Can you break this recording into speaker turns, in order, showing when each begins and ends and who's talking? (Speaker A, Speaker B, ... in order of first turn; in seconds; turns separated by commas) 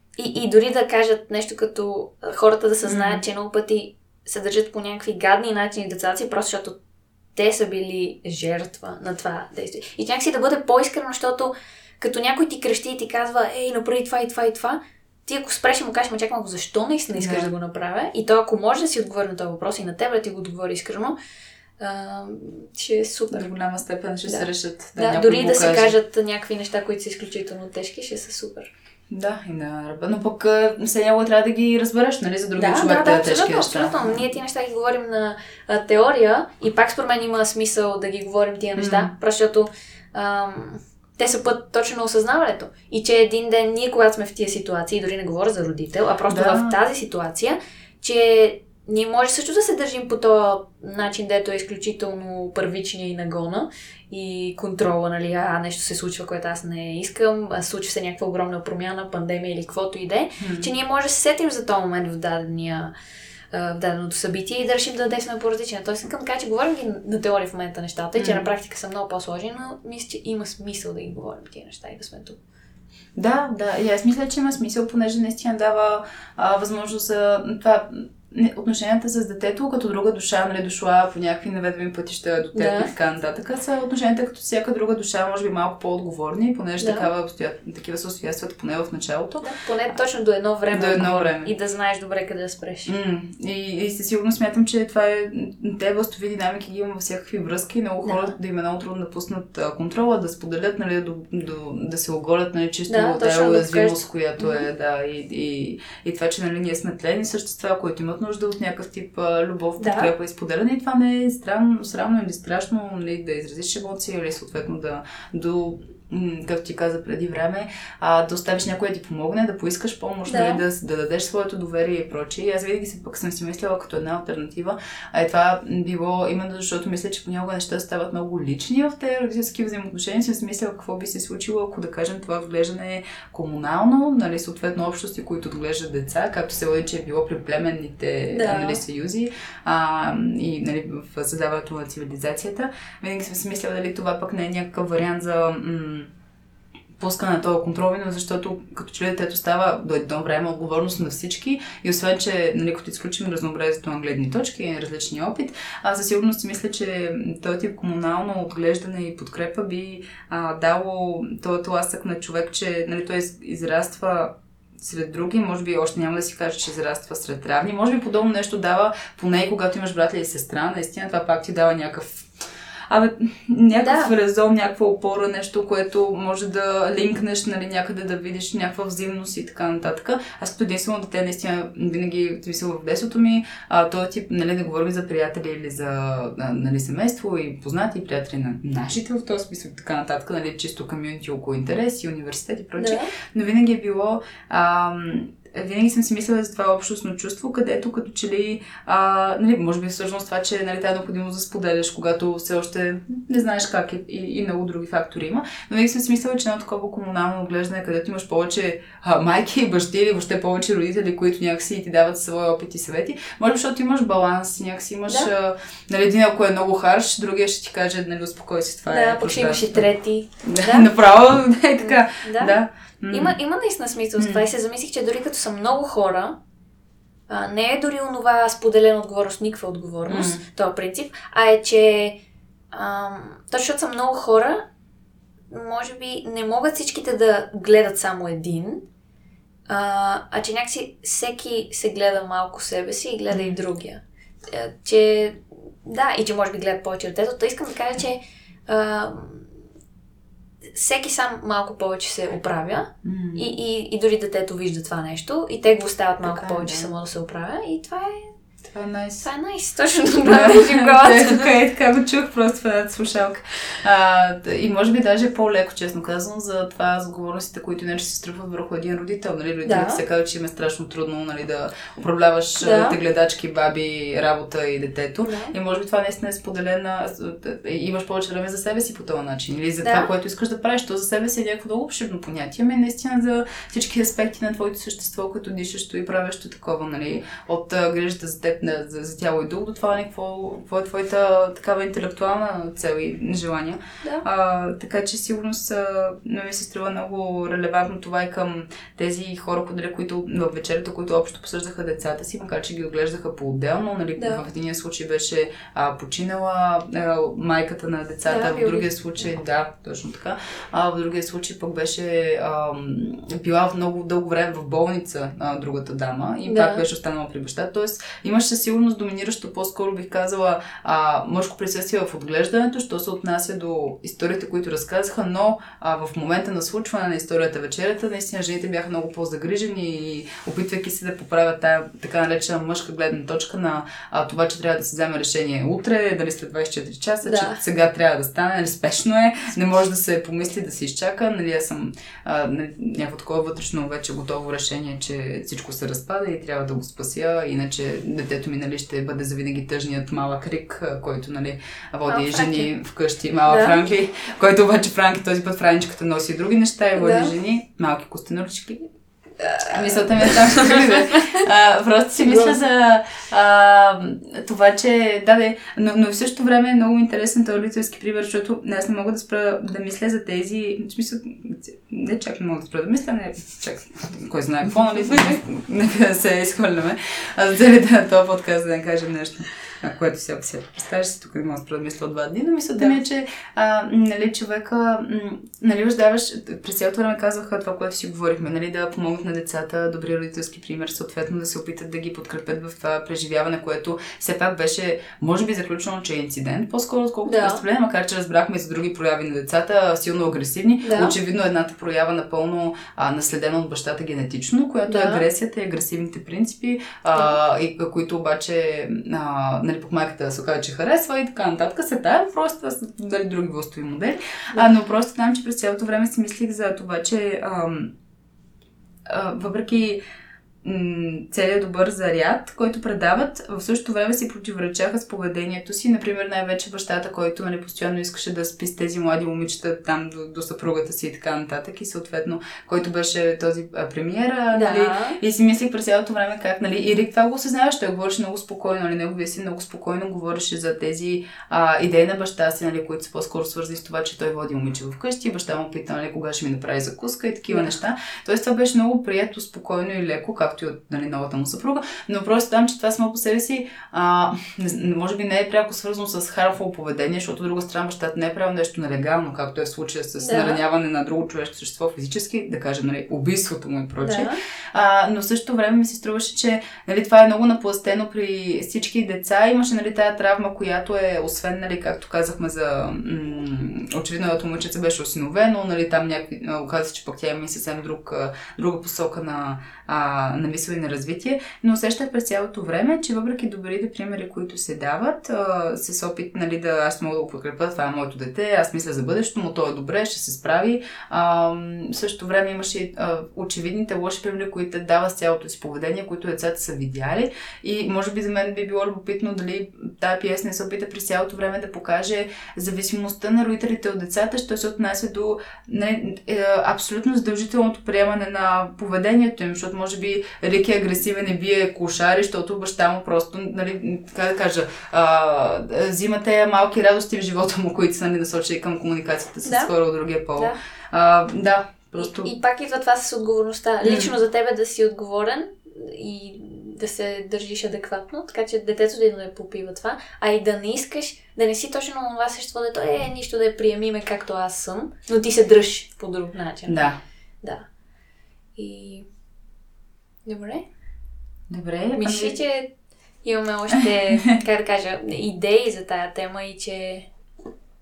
Speaker A: 0.2-6.8, Speaker B: 2.9-3.2, Speaker A: 7.3-21.2, Speaker B: 17.1-17.5, Speaker A: 21.8-23.5, Speaker B: 23.3-25.9, Speaker A: 24.3-28.7, Speaker B: 29.1-34.2, Speaker A: 32.6-62.9, Speaker B: 38.8-39.1, Speaker B: 46.3-46.8, Speaker B: 60.4-60.7, Speaker A: 63.5-72.4, Speaker B: 68.2-68.5, Speaker B: 73.2-89.5, Speaker A: 82.5-82.9, Speaker A: 86.8-87.1, Speaker A: 89.4-92.9, Speaker B: 90.7-91.5, Speaker B: 92.9-146.1, Speaker A: 98.0-98.3, Speaker A: 102.9-104.7, Speaker A: 109.8-110.1, Speaker A: 120.3-120.6, Speaker A: 138.3-138.8, Speaker B: 147.0-172.3, Speaker B: 172.9-219.9, Speaker A: 173.8-174.1, Speaker A: 192.8-193.1, Speaker A: 218.9-220.9, Speaker B: 220.4-223.4, Speaker A: 221.8-222.6, Speaker A: 223.1-226.4, Speaker B: 224.2-224.4, Speaker A: 227.3-232.2, Speaker B: 230.1-230.4, Speaker A: 232.7-234.7, Speaker A: 235.5-238.8, Speaker A: 239.7-249.5, Speaker B: 243.3-243.6, Speaker A: 250.7-258.3, Speaker B: 253.0-253.5, Speaker B: 256.2-256.9, Speaker B: 258.7-259.3, Speaker A: 259.2-261.5, Speaker B: 260.2-358.8, Speaker A: 269.6-270.0, Speaker A: 272.6-273.0, Speaker A: 275.2-275.5, Speaker A: 279.8-280.1, Speaker A: 304.2-304.5, Speaker A: 308.3-308.9, Speaker A: 316.5-316.9, Speaker A: 337.2-337.6, Speaker A: 352.1-352.7, Speaker A: 353.5-353.8, Speaker A: 357.0-357.3, Speaker A: 359.4-361.2, Speaker B: 359.6-417.9, Speaker A: 362.2-362.6, Speaker A: 397.2-397.6, Speaker A: 400.8-401.1, Speaker A: 404.9-405.2, Speaker B: 419.1-420.0, Speaker B: 420.6-522.3, Speaker A: 434.5-435.2, Speaker A: 447.5-447.8, Speaker A: 460.2-460.6, Speaker A: 464.0-464.4, Speaker A: 519.5-519.7, Speaker A: 522.0-536.8, Speaker B: 523.8-524.1, Speaker B: 536.7-537.0, Speaker A: 538.6-539.1, Speaker A: 540.3-540.6, Speaker B: 541.5-542.4, Speaker A: 542.0-542.7, Speaker A: 543.2-547.1